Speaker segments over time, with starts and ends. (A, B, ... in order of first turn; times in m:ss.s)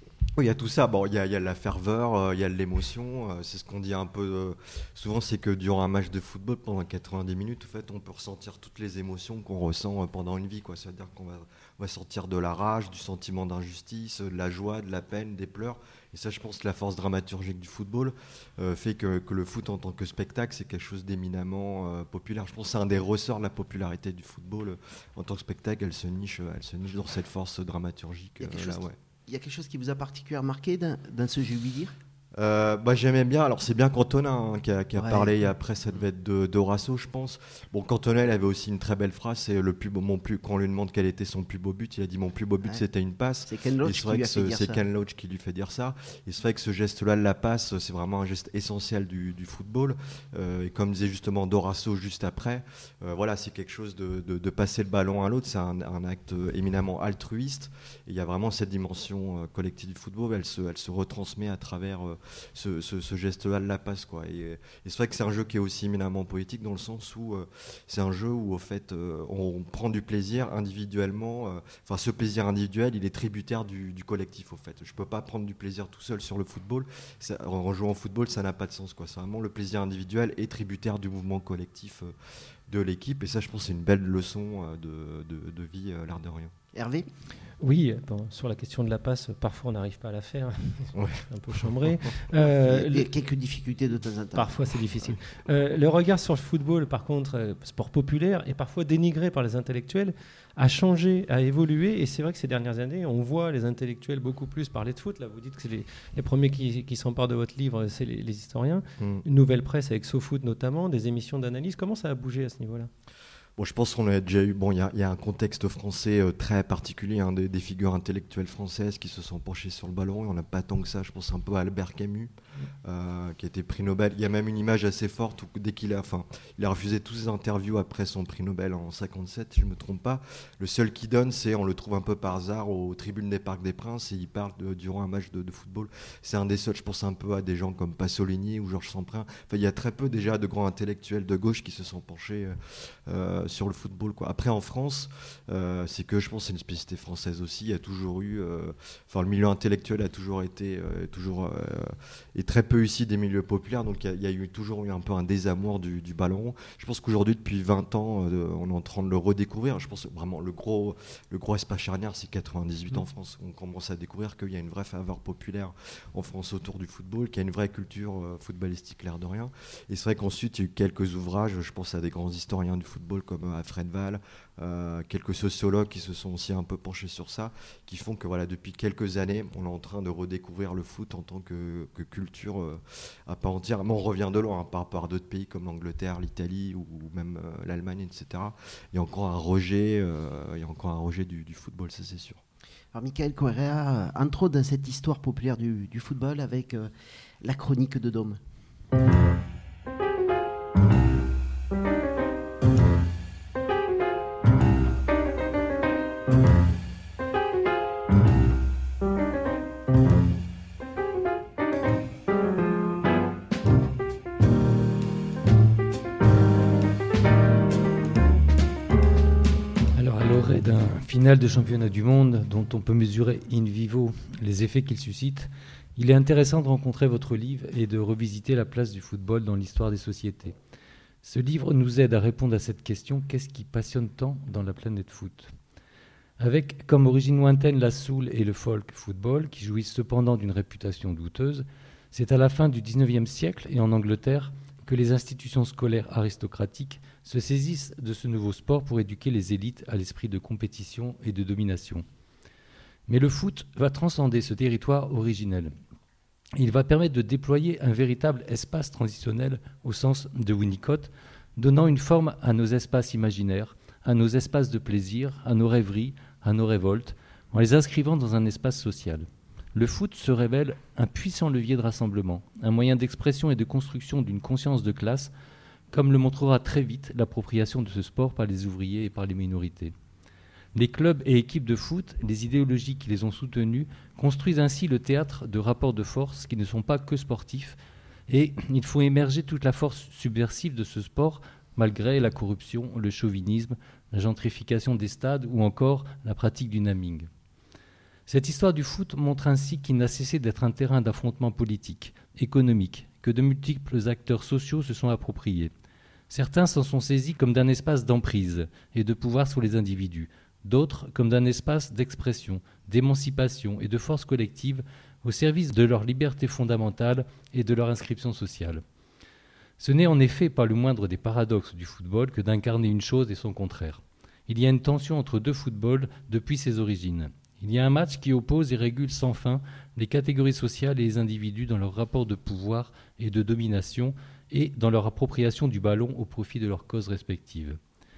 0:00.4-0:28.9 A
0:28.4-0:31.9 B
0:32.4-1:22.1 A
0:35.0-0:35.4 B
0:43.5-0:44.8 B
1:22.7-1:26.5 A
1:26.7-1:27.1 B
1:27.6-1:33.1 C
1:30.9-1:31.2 A
1:32.6-1:34.6 B
1:34.3-1:52.9 C
1:49.0-1:49.2 A
1:53.6-2:02.3 A
2:02.8-2:22.5 A
2:23.1-3:12.4 A
3:12.9-3:16.9 B
3:17.4-3:18.4 B
3:39.9-3:50.6 D
3:51.2-3:55.5 D
3:56.4-4:12.0 D
4:13.1-4:15.7 D
4:16.6-4:35.3 D
4:35.9-4:39.9 D
4:40.7-4:47.8 D
4:48.3-4:57.3 D
4:58.3-5:05.7 D
5:06.3-5:18.8 D
5:19.8-5:37.8 D